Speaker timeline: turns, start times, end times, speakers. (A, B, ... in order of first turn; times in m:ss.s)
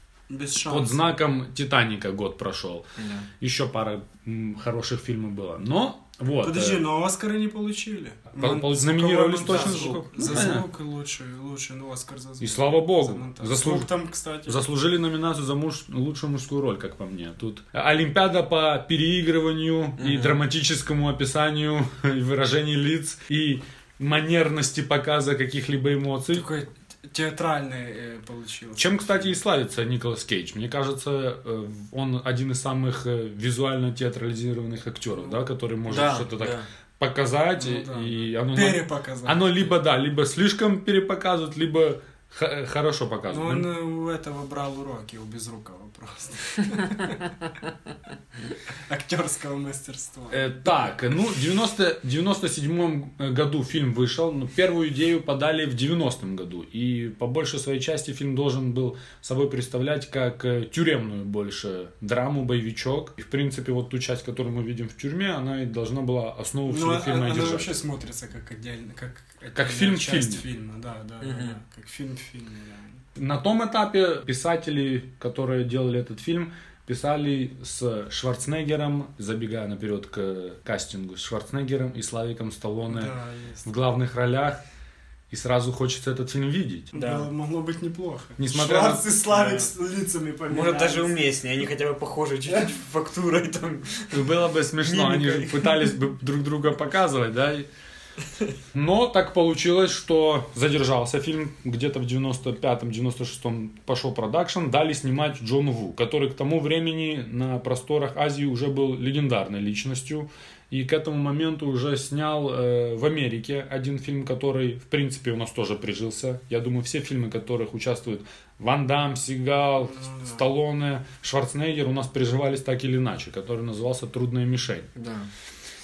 0:00.3-0:01.0 A
0:00.6-0:06.9 B
0:03.0-0:03.3 C
0:06.4-0:14.6 A
0:08.4-0:10.7 B
0:09.5-0:10.6 C
0:12.4-0:13.9 B
0:14.4-0:26.5 B
0:20.0-0:20.4 C
0:26.3-0:29.3 A
0:28.8-0:43.7 B
0:35.9-0:36.7 C
0:37.6-0:39.6 A
0:43.3-0:47.3 A
0:48.9-0:50.7 A
0:50.3-1:07.8 B
1:06.7-1:13.0 A
1:09.5-1:10.4 B
1:11.2-1:11.6 C
1:13.2-1:24.6 B
1:22.9-1:23.6 A
1:25.3-1:26.9 B
1:26.9-1:31.2 A
1:26.9-1:27.3 C
1:28.4-1:29.5 B
1:30.5-1:35.9 C
1:34.1-1:37.7 B
1:38.7-2:04.9 B
1:59.9-2:00.4 A
2:05.0-2:05.3 C